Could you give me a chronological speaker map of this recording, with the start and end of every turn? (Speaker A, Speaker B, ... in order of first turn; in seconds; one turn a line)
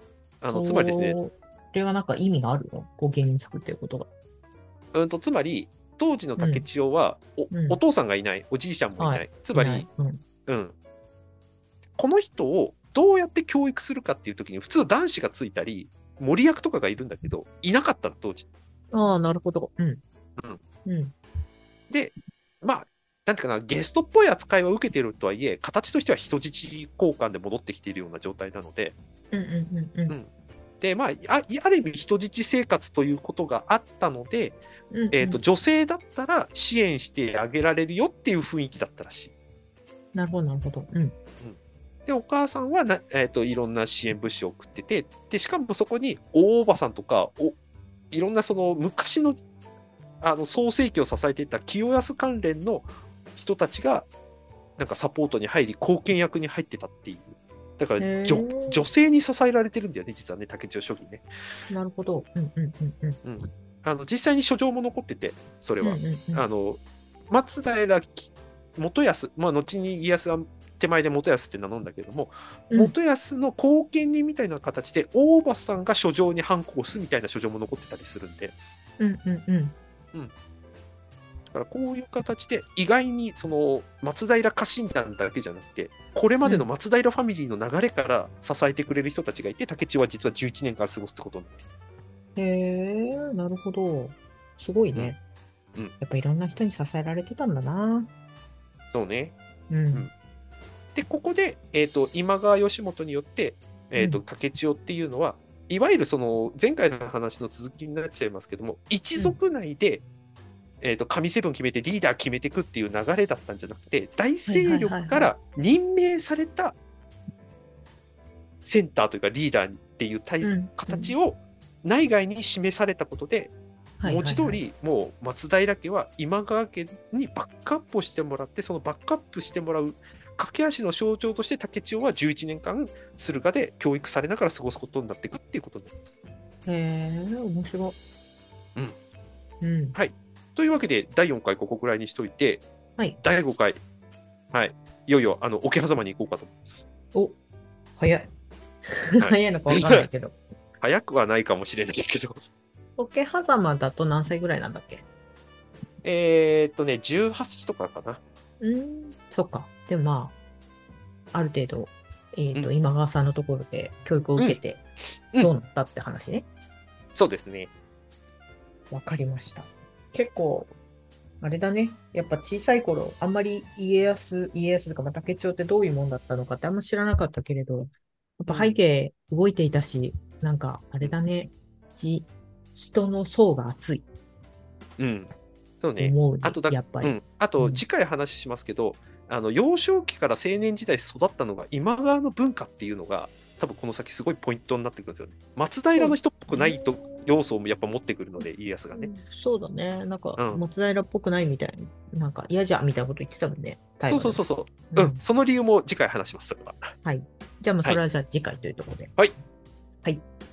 Speaker A: 0.4-1.2
Speaker B: 0.4-4.1
Speaker A: 4.9-9.9
Speaker B: 6.4-6.7
Speaker B: 7.5-7.8
Speaker B: 9.0-10.2
Speaker A: 10.5-10.7
Speaker A: 11.9-18.4
Speaker B: 18.9-20.0
Speaker B: 20.8-21.1
Speaker A: 21.9-28.9
Speaker B: 29.3-30.1
Speaker A: 30.8-34.6
Speaker B: 34.9-35.4
Speaker A: 35.1-39.3
Speaker B: 40.1-41.1
Speaker A: 41.4-47.6
Speaker A: 48.1-49.4
Speaker A: 50.2-54.1
Speaker A: 54.8-61.2
Speaker B: 58.0-58.8
Speaker B: 61.7-63.2
Speaker A: 63.2-78.6
Speaker B: 65.8-66.4
Speaker B: 79.0-79.7
Speaker A: 81.5-91.6
Speaker B: 92.3-95.2
Speaker B: 96.0-98.1
Speaker A: 98.9-99.3
Speaker B: 99.7-100.1
Speaker A: 100.9-110.0
Speaker B: 104.0-104.2
Speaker A: 110.8-116.7
Speaker B: 114.5-115.3
Speaker A: 118.6-136.0
Speaker B: 120.4-121.2
Speaker B: 124.0-124.6
Speaker B: 136.7-138.0
Speaker B: 139.6-140.0
Speaker A: 139.9-142.6
Speaker A: 143.2-143.8
Speaker A: 144.5-146.8
Speaker B: 147.9-148.3
Speaker B: 148.9-150.3
Speaker A: 149.2-150.1
Speaker A: 150.8-152.4
Speaker B: 153.0-155.0
Speaker A: 156.0-158.2
Speaker B: 158.6-160.3
Speaker B: 161.3-164.8
Speaker B: 165.4-166.4
Speaker A: 167.1-167.7
Speaker B: 168.9-170.7
Speaker B: 171.4-184.1
Speaker A: 178.5-178.8
Speaker A: 185.0-199.1
Speaker B: 186.0-187.8
Speaker B: 195.9-197.3
Speaker B: 198.9-205.2
Speaker A: 204.1-206.9
Speaker B: 207.0-209.1